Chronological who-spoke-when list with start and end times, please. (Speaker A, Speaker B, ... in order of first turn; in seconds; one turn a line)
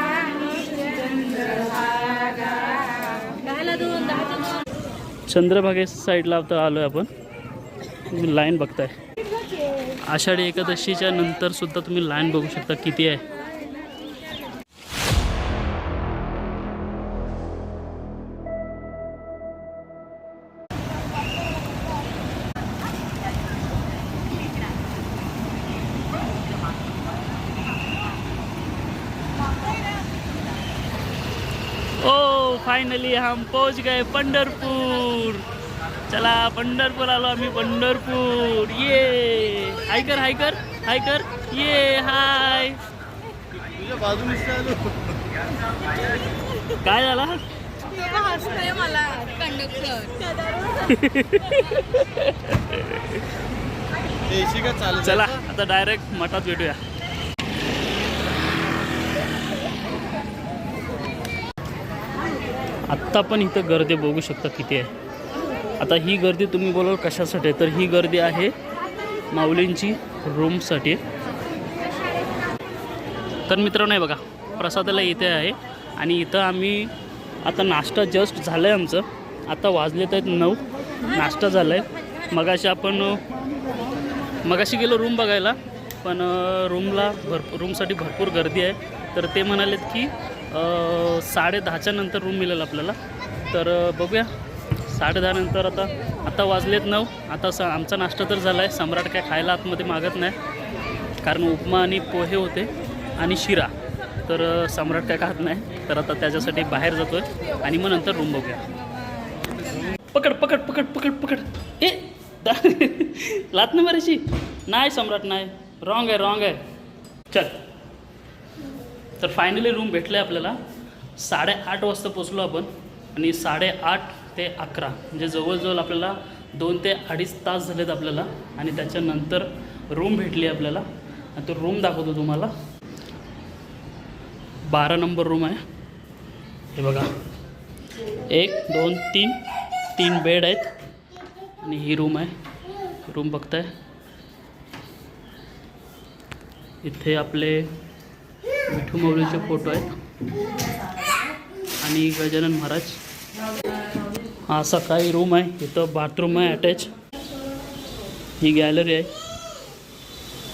Speaker A: 0.8-2.5
Speaker A: 3.2-4.6
Speaker B: 5.3-7.1
Speaker B: 8.1-8.9
Speaker B: 9.9-13.2
Speaker B: 32.0-35.5
Speaker B: 36.1-42.8
Speaker C: 43.7-45.2
Speaker B: 46.8-47.4
Speaker A: 48.0-50.2
Speaker B: 50.7-53.4
Speaker C: 54.3-55.3
Speaker B: 54.9-56.8
Speaker B: 62.9-64.9
Speaker B: 65.8-68.5
Speaker B: 69.3-71.0
Speaker B: 73.5-76.9
Speaker B: 77.4-83.2
Speaker B: 84.4-93.0
Speaker B: 93.5-94.3
Speaker B: 94.9-100.4
Speaker B: 101.2-103.7
Speaker B: 104.3-108.6
Speaker B: 110.1-116.6
Speaker B: 117.3-117.6
Speaker B: 119.2-120.6
Speaker B: 121.2-130.8
Speaker B: 131.3-132.5
Speaker B: 134.7-135.6
Speaker B: 136.7-137.1
Speaker B: 138.2-139.4
Speaker B: 139.9-140.7
Speaker B: 141.6-142.3
Speaker B: 143.1-143.7
Speaker B: 146.8-147.7
Speaker B: 148.7-149.9
Speaker B: 151.8-153.0
Speaker B: 154.4-156.9
Speaker B: 158.4-159.1